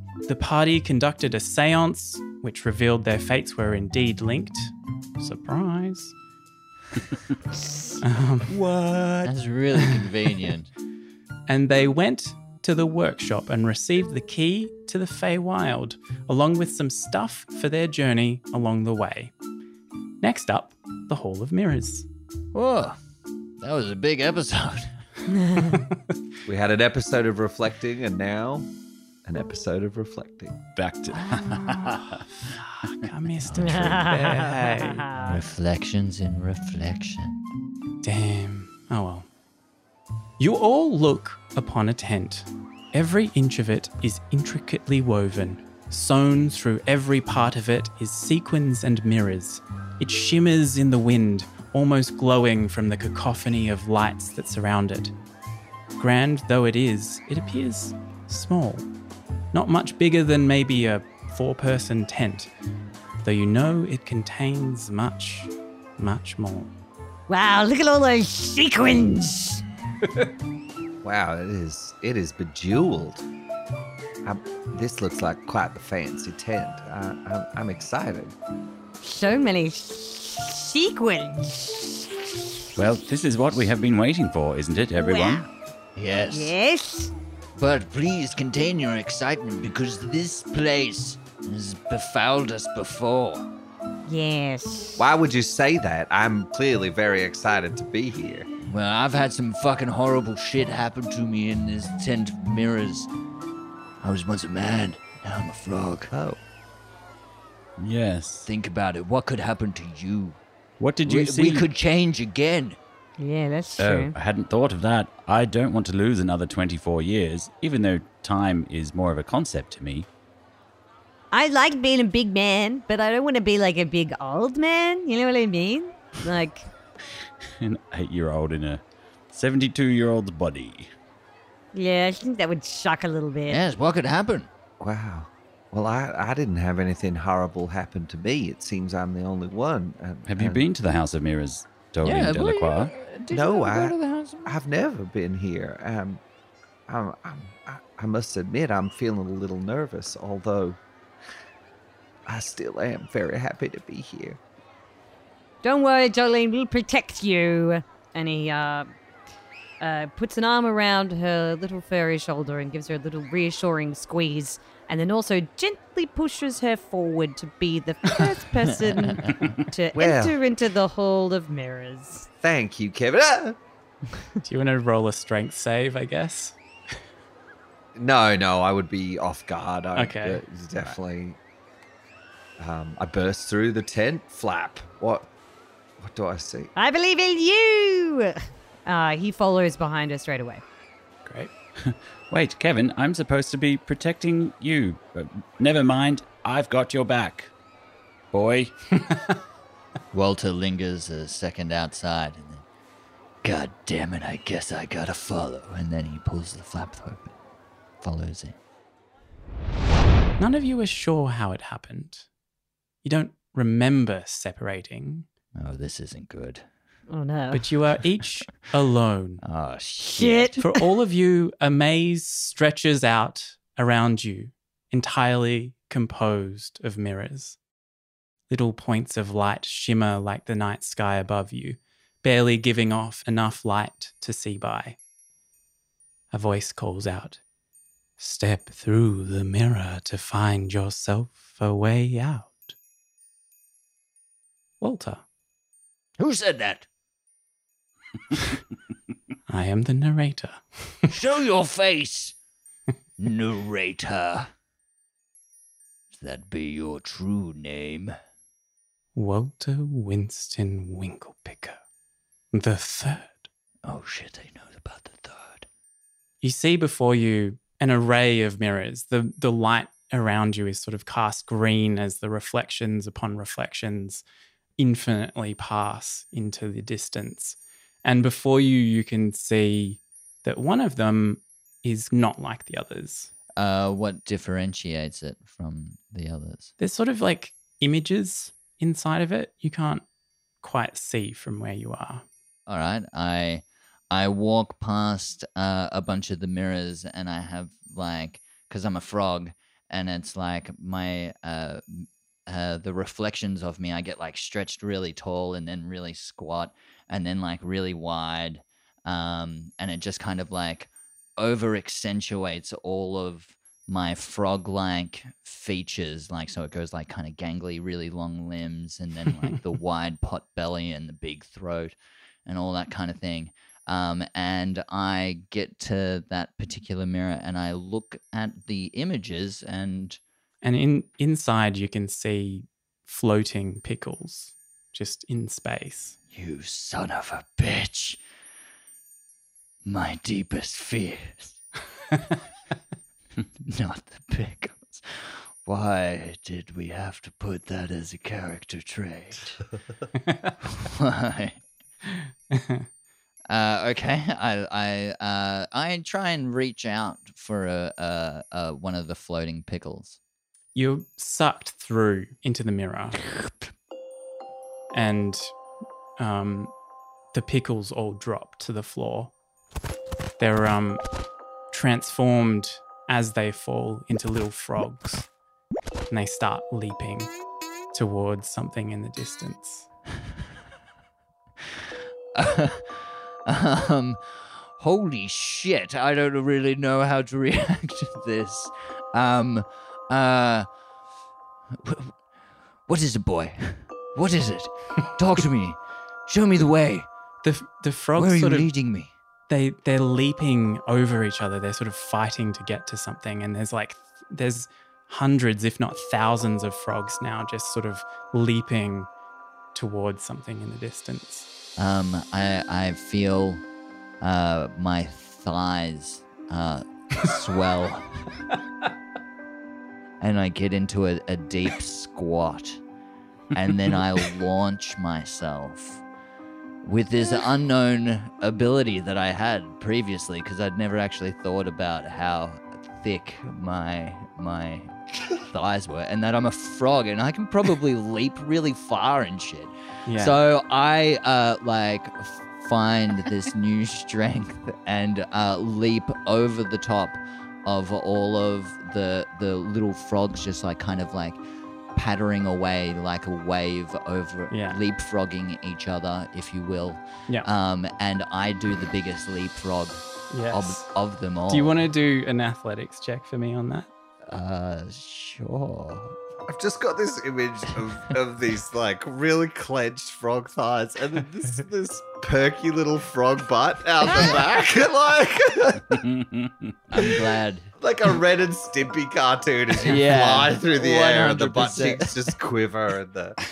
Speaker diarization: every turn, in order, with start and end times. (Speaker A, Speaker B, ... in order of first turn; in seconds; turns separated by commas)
Speaker A: 0.3-6.2, Speaker A: 8.0-8.6, Speaker B: 8.7-9.2, Speaker C: 9.2-10.7, Speaker A: 11.5-19.3, Speaker A: 20.2-22.1, Speaker C: 22.5-23.0, Speaker C: 23.6-25.0, Speaker D: 25.3-25.8, Speaker E: 26.5-28.7, Speaker E: 29.2-30.6, Speaker B: 30.8-32.2, Speaker A: 31.5-35.1, Speaker D: 33.6-35.4, Speaker C: 35.2-37.4, Speaker A: 38.0-39.3, Speaker A: 40.4-55.1, Speaker A: 56.0-58.9, Speaker A: 59.5-62.5, Speaker A: 63.2-66.7, Speaker D: 67.3-69.6, Speaker E: 71.0-73.2, Speaker E: 74.2-78.3, Speaker D: 79.0-82.1, Speaker B: 82.8-85.5, Speaker D: 85.0-85.5, Speaker C: 86.0-86.5, Speaker D: 86.3-87.1, Speaker C: 87.6-93.5, Speaker D: 94.1-95.0, Speaker E: 95.0-98.5, Speaker C: 98.6-103.1, Speaker C: 104.0-106.1, Speaker E: 106.1-106.4, Speaker B: 107.8-108.5, Speaker C: 108.5-110.4, Speaker B: 110.8-111.7, Speaker C: 111.0-112.8, Speaker D: 113.2-114.1, Speaker B: 113.8-120.1, Speaker D: 121.3-126.7, Speaker B: 127.6-130.9, Speaker D: 131.7-133.6, Speaker C: 133.5-134.5, Speaker E: 134.8-140.6, Speaker B: 140.3-142.9, Speaker C: 142.0-144.6, Speaker E: 143.3-146.2, Speaker E: 146.9-150.8, Speaker E: 152.3-154.4, Speaker D: 155.6-159.0, Speaker D: 159.8-172.3, Speaker E: 169.9-170.4, Speaker E: 172.4-173.6, Speaker A: 174.4-176.6, Speaker E: 177.9-181.4, Speaker A: 179.9-180.4, Speaker E: 182.6-185.3, Speaker E: 186.0-186.7, Speaker D: 186.8-190.6, Speaker B: 191.8-197.5, Speaker B: 198.3-198.8, Speaker C: 200.1-202.7, Speaker C: 203.4-207.3, Speaker C: 208.0-208.6, Speaker A: 210.4-212.3, Speaker A: 213.0-215.3, Speaker C: 215.6-216.7, Speaker D: 217.1-217.7, Speaker A: 217.5-219.4, Speaker C: 219.4-220.6, Speaker D: 220.0-220.6, Speaker A: 220.6-227.6, Speaker A: 228.5-235.0, Speaker A: 236.3-237.4, Speaker A: 238.2-242.8, Speaker A: 244.8-245.2, Speaker C: 246.2-246.9, Speaker A: 249.5-251.1, Speaker C: 251.1-252.4, Speaker C: 253.2-254.5, Speaker C: 256.1-258.1, Speaker A: 259.1-261.8, Speaker A: 262.5-263.5, Speaker C: 263.9-265.7, Speaker A: 266.4-274.2, Speaker A: 274.8-283.3, Speaker C: 283.6-286.7, Speaker A: 286.8-290.1, Speaker A: 290.6-292.2, Speaker C: 292.7-321.9, Speaker C: 322.5-330.2, Speaker A: 330.6-336.2, Speaker C: 336.3-338.2, Speaker C: 339.9-341.6, Speaker C: 343.6-349.6, Speaker A: 350.2-350.6, Speaker C: 350.7-351.6, Speaker A: 352.2-352.9, Speaker C: 353.5-360.2, Speaker A: 360.8-363.2, Speaker A: 364.9-365.6, Speaker A: 366.2-366.7, Speaker A: 367.3-369.3, Speaker A: 370.4-371.0, Speaker A: 371.7-375.3, Speaker A: 376.1-377.4, Speaker A: 377.9-379.9, Speaker C: 382.4-390.7, Speaker C: 391.7-392.2, Speaker C: 392.9-397.1, Speaker A: 397.4-398.7, Speaker C: 398.2-399.1, Speaker A: 399.5-409.1, Speaker A: 409.7-411.5, Speaker C: 411.8-413.6, Speaker C: 414.2-418.3, Speaker C: 420.2-422.8, Speaker C: 423.5-426.0, Speaker C: 426.8-451.4, Speaker A: 440.1-440.4, Speaker C: 451.9-461.8, Speaker A: 454.5-454.8, Speaker A: 460.3-460.9, Speaker A: 461.5-463.9, Speaker C: 464.3-466.2, Speaker E: 466.5-476.0, Speaker B: 475.9-476.7, Speaker C: 476.9-477.7, Speaker E: 477.8-483.4, Speaker C: 479.8-482.2